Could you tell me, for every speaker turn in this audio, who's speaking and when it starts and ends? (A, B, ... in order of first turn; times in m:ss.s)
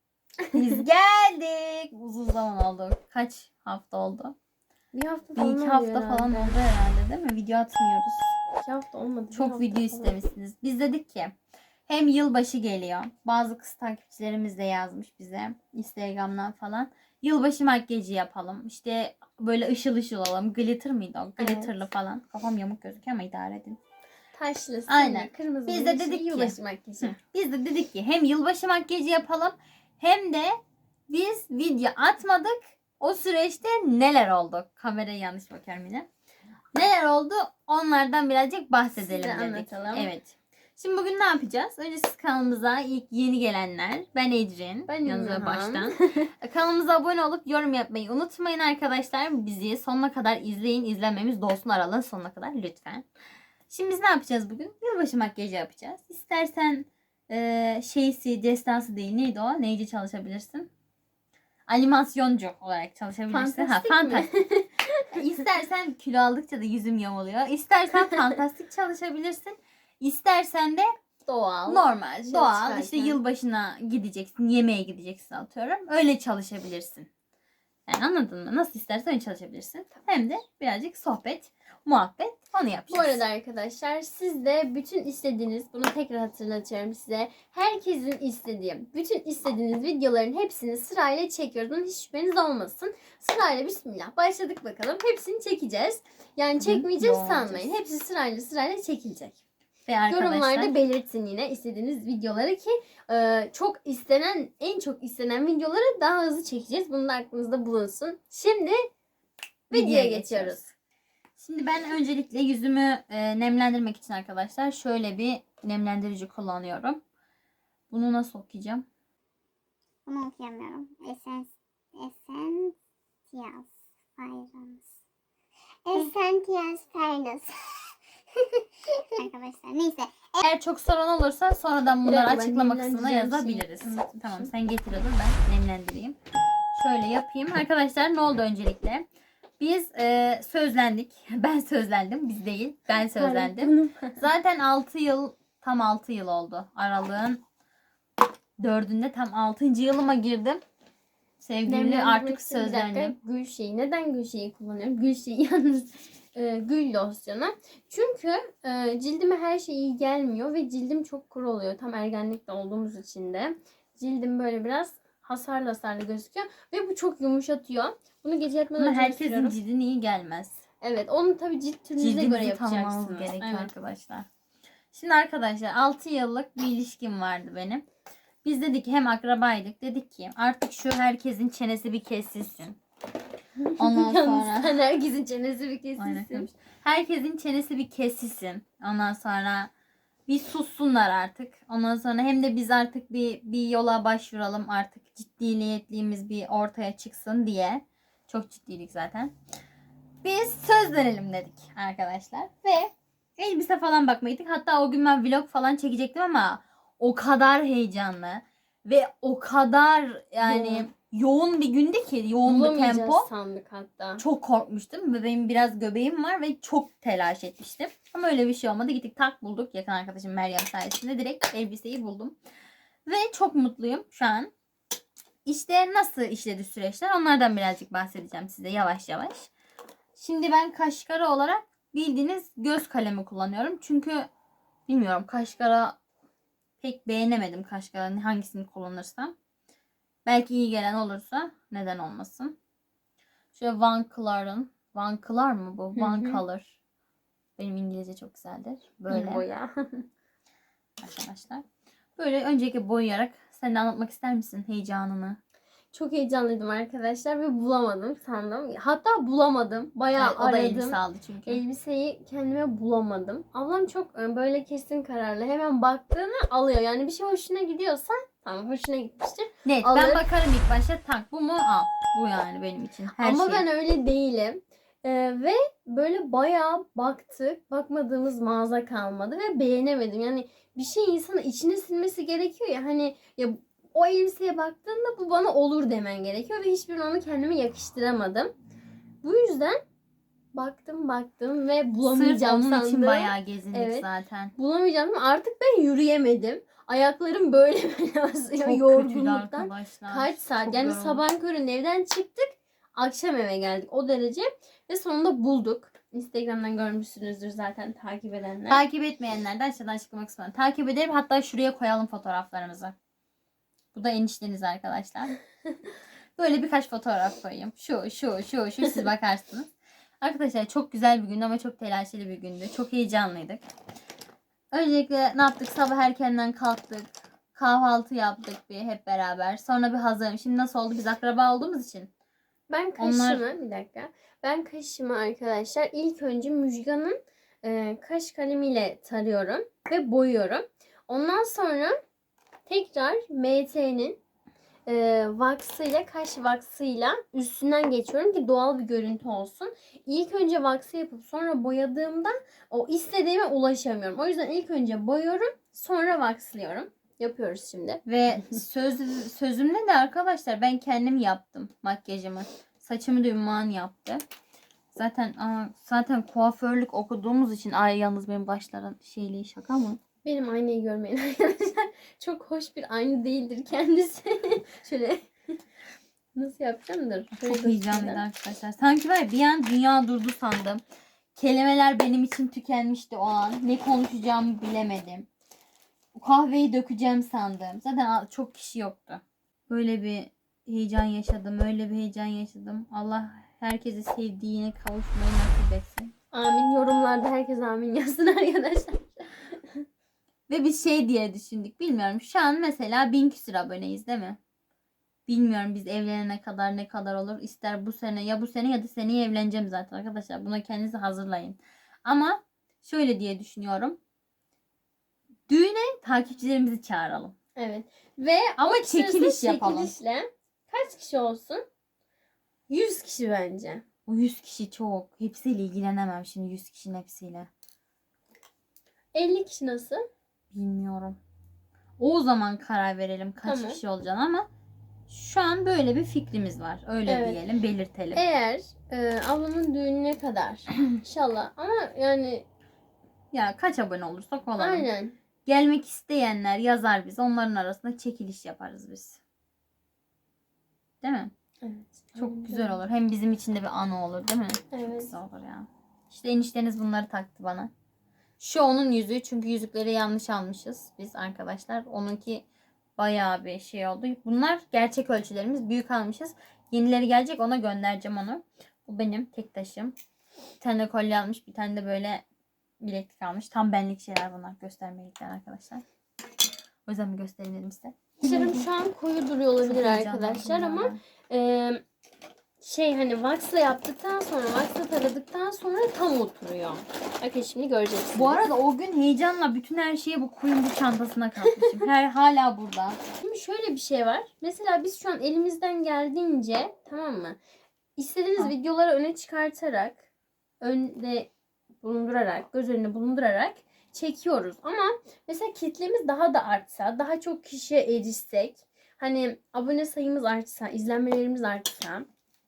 0:00.4-0:00.8 A
0:00.5-0:04.3 B
0:04.9-0:06.5 A
0:05.4-0:08.3 B
0:08.6-0:10.2 A
0:09.3-0:11.3 B
0:11.9-0:23.8 B
0:21.4-0:21.7 A
0:24.3-0:27.2 A
0:24.9-0:36.1 B
0:36.7-0:53.0 B
0:39.0-0:40.1 A
0:44.9-0:46.3 A
0:53.7-1:00.7 B
1:01.7-1:04.3 B
1:03.3-1:05.2 A
1:05.1-1:10.9 B
1:11.2-1:13.2 A
1:11.7-1:17.1 B
1:17.9-1:23.2 B
1:22.9-1:39.4 A
1:36.6-1:37.8 B
1:39.8-1:40.8 B
1:40.1-1:48.9 A
1:49.7-1:50.6 A
1:49.7-1:50.7 B
1:51.4-1:57.0 B
1:57.9-1:58.8 B
2:00.0-2:02.7 C
2:03.3-2:04.8 C
2:05.9-2:07.5 C
2:09.2-2:10.4 C
2:10.4-2:16.2 B
2:12.0-2:14.5 A
2:16.7-2:19.0 B
2:19.6-2:27.4 B
2:23.0-2:24.2 A
2:28.6-2:30.6 B
2:31.4-2:33.2 B
2:31.6-2:49.6 A
2:48.8-2:50.6 B
2:50.8-2:53.7 A
2:52.0-2:54.3 B
2:54.9-2:57.8 B
2:58.4-3:02.8 B
3:03.6-3:06.5 A
3:03.8-3:04.8 B
3:06.0-3:09.7 B
3:10.3-3:19.3 B
3:20.2-3:33.3 B
3:30.4-3:30.9 A
3:32.4-3:34.2 A
3:34.2-3:42.4 B
3:43.0-3:44.5 B
3:45.4-3:49.5 B
3:50.2-3:54.3 B
3:54.9-3:56.0 B
3:56.8-3:59.3 B
4:00.2-4:02.6 B
4:03.5-4:06.7 B
4:06.0-4:06.4 A
4:07.6-4:09.4 B
4:09.1-4:10.1 A
4:11.0-4:11.6 B
4:12.2-4:15.4 B
4:15.9-4:30.2 A
4:20.1-4:21.6 B
4:29.6-4:33.6 B
4:33.2-4:48.5 A
4:49.2-4:49.8 A
4:50.5-5:08.8 A
4:52.0-4:54.5 B
4:58.6-5:01.2 B
5:08.7-5:12.9 B
5:13.9-5:15.4 B
5:16.4-5:23.6 B
5:24.7-5:32.1 B
5:32.7-5:42.0 A
5:33.0-5:33.4 B
5:42.7-5:44.2 A
5:44.8-5:58.0 A
5:58.0-6:04.2 B
6:04.9-6:10.0 B
6:10.2-6:15.6 A
6:16.3-6:18.2 A
6:17.3-6:20.8 B
6:21.3-6:25.3 B
6:26.1-6:36.1 B
6:36.3-6:39.8 A
6:40.5-6:44.4 B
6:45.3-6:54.0 B
6:55.5-6:57.3 B
6:57.6-7:01.6 A
6:58.6-6:59.9 B
7:02.7-7:03.8 A
7:04.0-7:07.5 B
7:09.1-7:10.0 A
7:10.5-7:11.2 B
7:12.0-7:14.5 B
7:13.4-7:13.8 A
7:15.1-7:18.2 B
7:17.0-7:17.4 A
7:18.1-7:22.4 A
7:23.3-7:24.9 B
7:24.6-7:25.1 A
7:25.4-7:29.2 B
7:31.0-7:31.3 B
7:31.6-7:32.8 A
7:32.2-7:37.7 B
7:34.7-7:35.1 A
7:38.4-7:42.4 B
7:43.0-7:50.0 B
7:50.6-7:52.2 B
7:52.8-7:55.8 B
7:56.8-7:58.6 B
7:58.2-8:01.8 A
7:59.6-8:01.0 B
8:02.6-8:08.4 A
8:08.1-8:13.0 B
8:11.4-8:11.8 A
8:13.2-8:17.4 A
8:18.0-8:20.0 A
8:20.6-8:21.3 A
8:21.8-8:32.1 A